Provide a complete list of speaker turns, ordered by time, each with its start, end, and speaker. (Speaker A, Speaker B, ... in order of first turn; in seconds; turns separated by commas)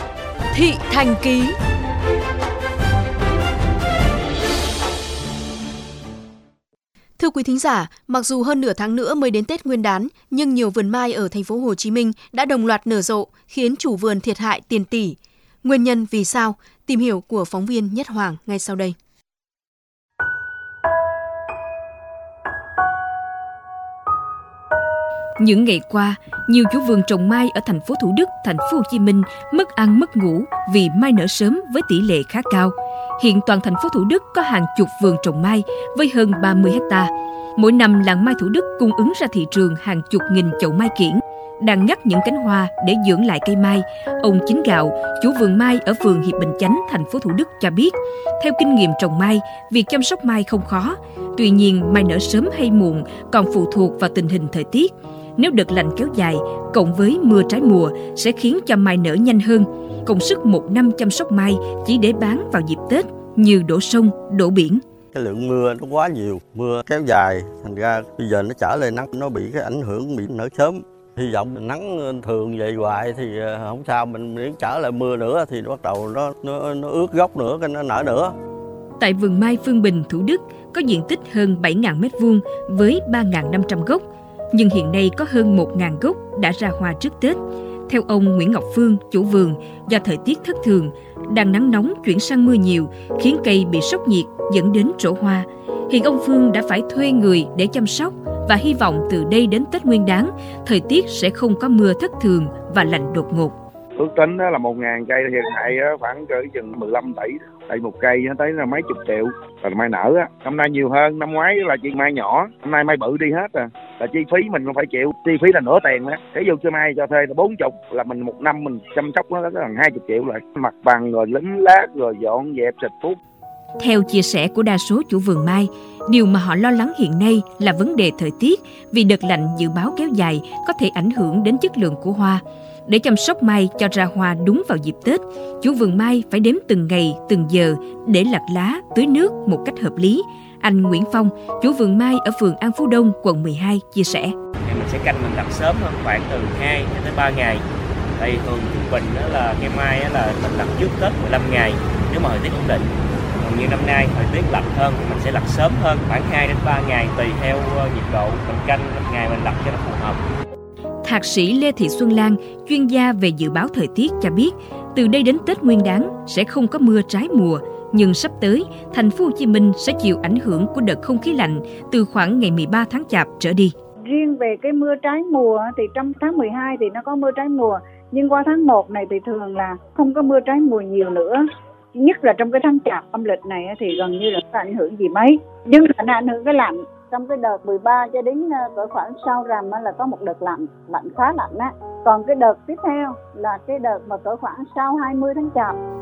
Speaker A: 0.5-1.6, Speaker A: 7.2-18.9, Speaker B: 25.4-64.8, Speaker C: 65.1-78.3, Speaker B: 79.0-103.5, Speaker D: 104.0-123.2, Speaker B: 123.8-144.3, Speaker E: 144.7-147.6, Speaker E: 148.2-160.2, Speaker B: 161.0-173.7, Speaker F: 174.1-181.4, Speaker F: 181.9-195.8